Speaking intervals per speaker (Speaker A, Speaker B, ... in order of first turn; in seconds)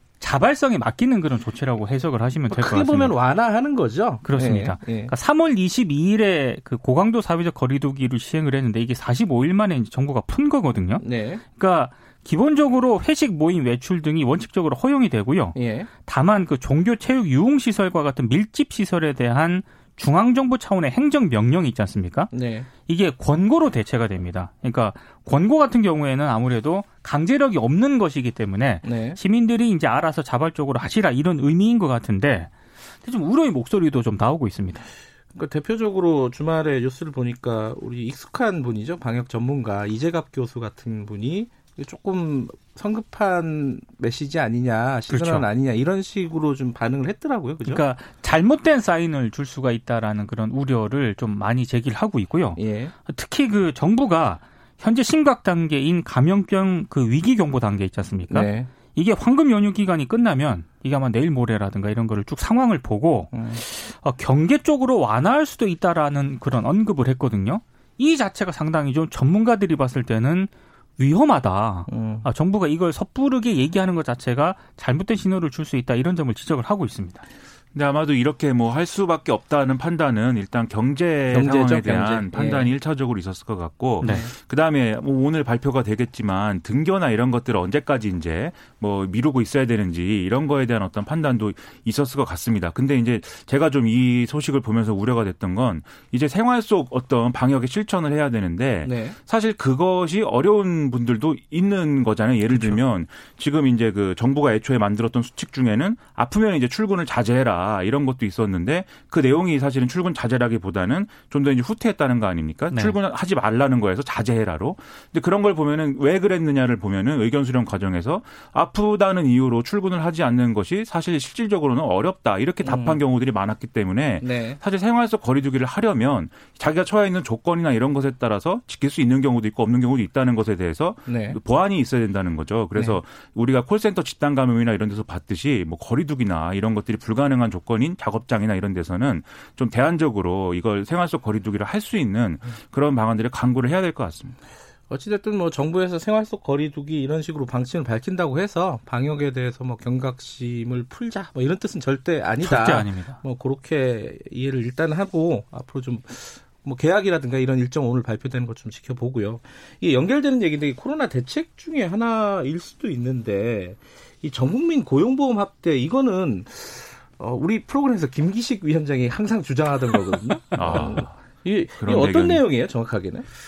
Speaker A: 0.2-3.1, 4.2-11.1, 11.6-22.3, 22.9-32.5, 33.0-34.9, 45.1-45.5, 47.6-77.2, 102.5-102.8, 152.4-153.2
Speaker B: 2.5-5.1, 11.0-11.4, 15.6-15.9, 22.3-22.7, 28.8-29.2, 35.4-47.8, 52.6-52.9, 58.3-58.7, 63.3-63.6, 71.9-72.3, 81.3-82.7, 84.0-84.3, 98.8-99.2, 122.6-123.0, 124.2-124.6, 131.1-131.4, 144.9-173.3
Speaker C: 77.8-144.4, 170.5-171.2, 171.8-172.5